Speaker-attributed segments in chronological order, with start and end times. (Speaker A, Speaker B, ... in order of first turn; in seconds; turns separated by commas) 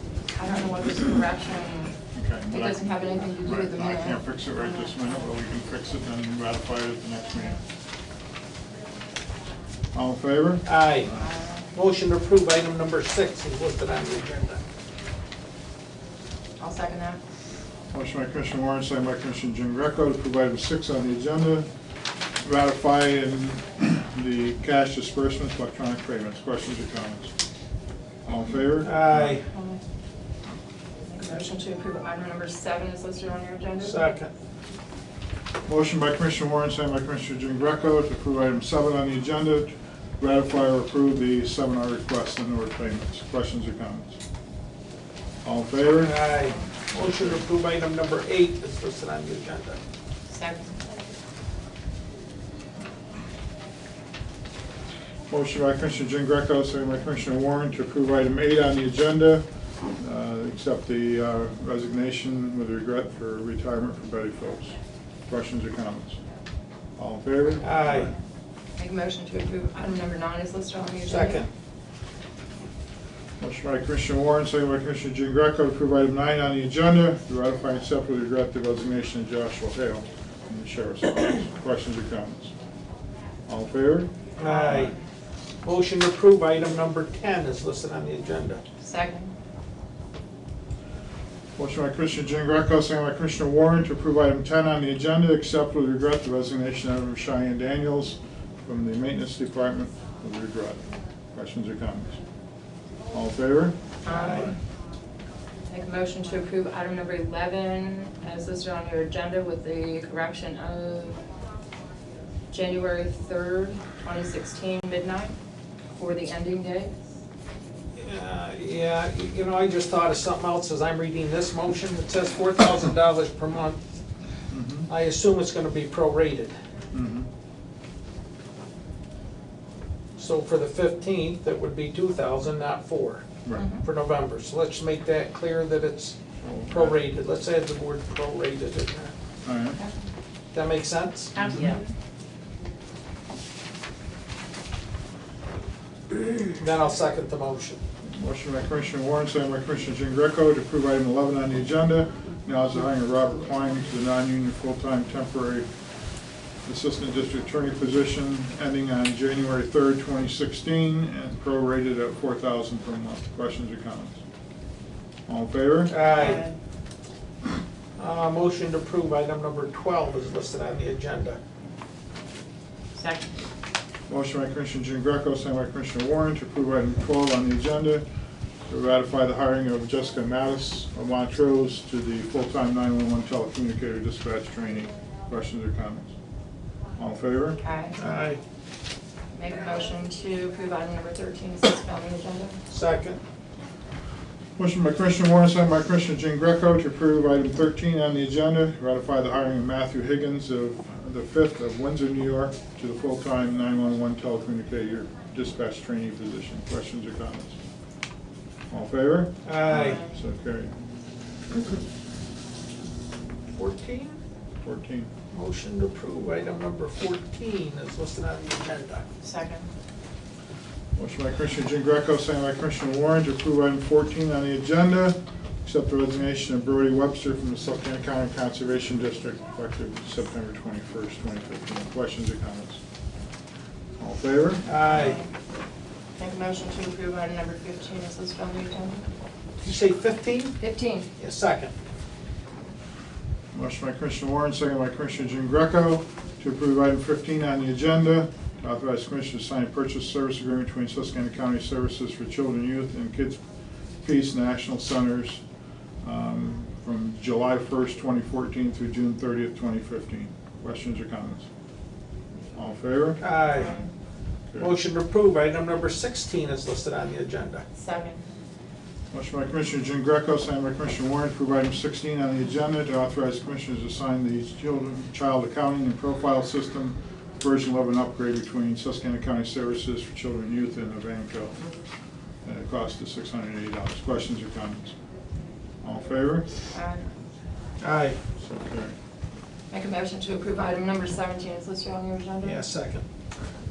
Speaker A: 0.3-2.0, Speaker B: 2.1-7.6, Speaker A: 2.5-5.0, Speaker B: 9.9-10.7, Speaker C: 10.7-11.1, Speaker A: 11.1-11.7, Speaker C: 11.7-14.6, Speaker A: 16.6-17.2, Speaker B: 17.9-21.7, Speaker B: 22.4-27.3, Speaker B: 28.2-29.4, Speaker C: 28.8-29.5, Speaker A: 29.5-29.8, Speaker A: 31.1-34.1, Speaker C: 33.8-34.3, Speaker B: 35.7-44.2, Speaker B: 45.4-46.1, Speaker C: 45.9-49.8, Speaker B: 47.0-47.4, Speaker A: 50.3-50.7, Speaker B: 55.3-59.5, Speaker B: 60.0-64.8, Speaker B: 65.3-66.2, Speaker B: 67.0-68.1, Speaker C: 67.6-68.1, Speaker A: 68.8-71.5, Speaker C: 71.1-71.5, Speaker B: 73.4-82.5, Speaker B: 83.5-84.1, Speaker C: 84.4-85.0, Speaker C: 85.6-88.6, Speaker A: 88.8-89.3, Speaker B: 91.6-102.2, Speaker B: 103.1-103.8, Speaker C: 104.0-104.5, Speaker A: 104.0-104.6, Speaker A: 105.7-111.2, Speaker A: 112.5-115.3, Speaker A: 115.9-116.9, Speaker C: 118.0-123.8, Speaker B: 124.5-124.9, Speaker C: 124.9-126.5, Speaker B: 126.9-127.3, Speaker C: 130.2-133.3, Speaker A: 133.6-133.8, Speaker C: 133.8-136.2, Speaker B: 136.4-137.0, Speaker C: 136.7-139.1, Speaker B: 139.4-139.8, Speaker C: 140.5-141.4, Speaker A: 141.3-141.9, Speaker B: 141.4-141.7, Speaker C: 146.5-147.8, Speaker B: 148.1-155.7, Speaker B: 156.7-164.2, Speaker B: 165.3-166.4, Speaker C: 165.9-166.4, Speaker A: 166.1-166.6, Speaker C: 168.0-171.4, Speaker A: 172.9-173.3, Speaker B: 174.1-178.1, Speaker B: 178.7-186.1, Speaker B: 187.0-187.6, Speaker A: 187.6-188.0, Speaker C: 188.0-188.4, Speaker A: 189.3-192.6, Speaker C: 192.7-193.2, Speaker B: 194.6-207.6, Speaker B: 208.7-210.7, Speaker C: 209.4-210.0, Speaker A: 209.7-210.1, Speaker C: 213.5-214.2, Speaker B: 214.6-215.1, Speaker C: 215.3-219.1, Speaker A: 219.2-219.7, Speaker B: 220.9-232.8, Speaker B: 234.0-234.6, Speaker C: 234.7-235.2, Speaker A: 234.9-235.3, Speaker A: 236.2-239.1, Speaker C: 239.6-240.6, Speaker A: 240.6-241.1, Speaker C: 241.2-241.7, Speaker B: 243.5-253.4, Speaker B: 254.0-255.4, Speaker B: 256.0-261.5, Speaker B: 262.6-263.2, Speaker C: 263.2-263.8, Speaker A: 263.5-263.9, Speaker C: 264.6-267.6, Speaker A: 267.8-268.2, Speaker B: 269.1-281.6, Speaker B: 282.4-284.9, Speaker B: 285.8-286.5, Speaker A: 286.7-287.1, Speaker C: 287.8-288.2, Speaker B: 288.4-288.9, Speaker A: 289.7-292.6, Speaker C: 292.4-293.0